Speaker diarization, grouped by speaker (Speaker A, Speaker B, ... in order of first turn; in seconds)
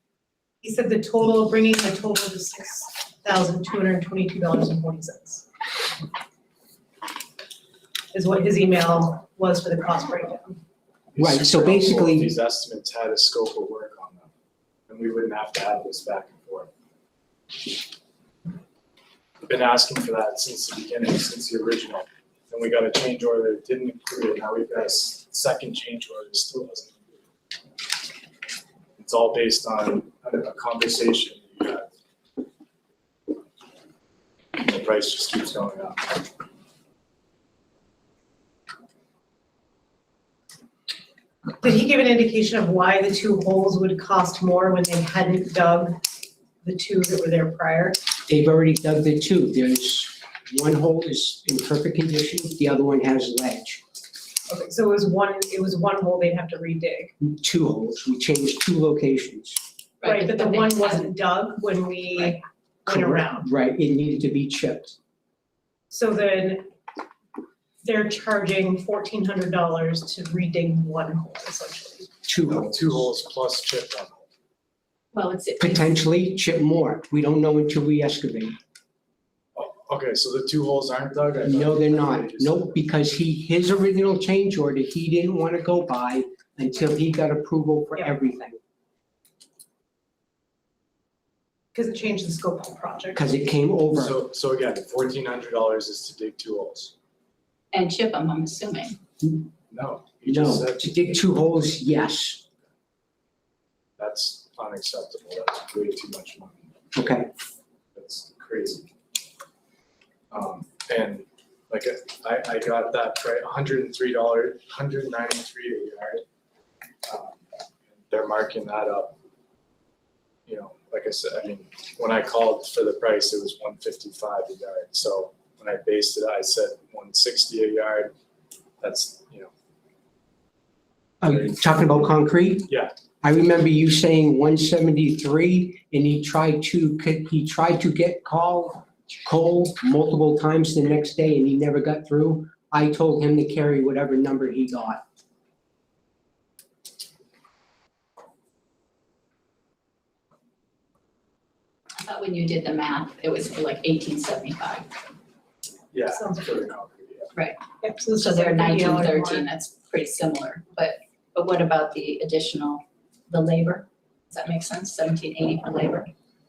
Speaker A: 0.6-5.5, 8.1-10.6, 41.6-46.0, 46.6-48.0, 54.5-57.1, 60.0-63.5, 65.9-66.7, 67.8-72.1, 91.7-93.2, 156.1-156.7, 157.8-159.4
Speaker B: 11.1-14.3, 14.9-16.7, 19.4-27.1, 29.0-31.9, 34.6-36.2, 72.5-74.2, 79.5-82.9, 93.9-96.9, 99.7-101.2, 104.0-106.7, 108.0-108.9, 110.3-116.2, 117.1-117.4, 118.1-119.2, 120.5-128.1, 128.8-129.5, 131.2-132.0, 132.7-132.9, 155.9-157.3
Speaker C: 11.2-12.3, 48.3-53.8, 57.2-59.6, 62.9-65.0, 72.3-72.9, 75.6-78.6, 81.5-88.6, 93.2-94.2, 100.3-102.4, 106.9-107.3, 131.2-132.7, 133.2-145.0
Speaker D: 60.0-61.0, 75.1-75.9, 97.7-99.0, 152.0-154.9, 158.2-166.1